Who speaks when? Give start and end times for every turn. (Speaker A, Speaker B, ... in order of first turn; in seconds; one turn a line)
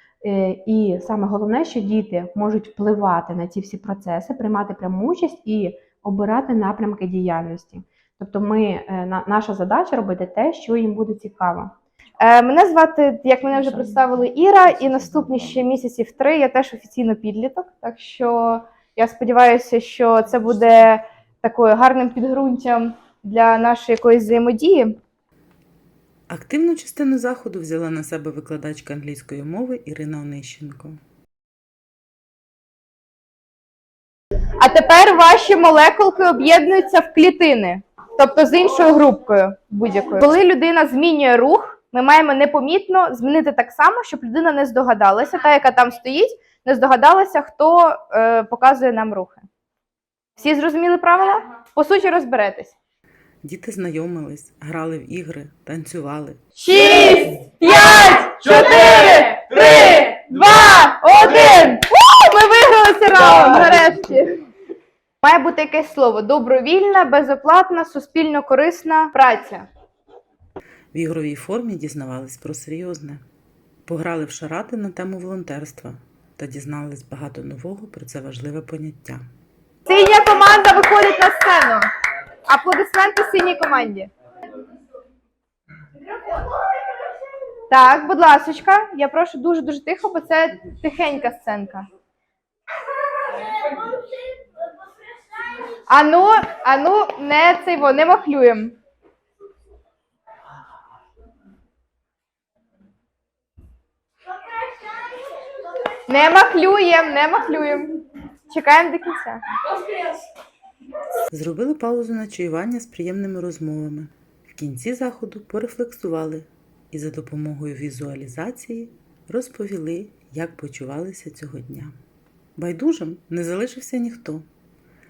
Speaker A: 0.2-11.7
Speaker B: 12.2-25.0
Speaker C: 26.3-31.0
Speaker B: 34.6-49.5
Speaker B: 50.4-52.8
Speaker C: 53.4-56.4
Speaker B: 56.5-64.4
Speaker B: 65.2-69.7
Speaker C: 70.9-73.2
Speaker C: 73.8-79.2
Speaker B: 79.8-81.9
Speaker B: 82.5-84.1
Speaker B: 87.7-91.9
Speaker B: 95.9-98.8
Speaker B: 106.1-108.0
Speaker B: 108.5-109.4
Speaker C: 111.3-121.9
Speaker C: 122.6-124.5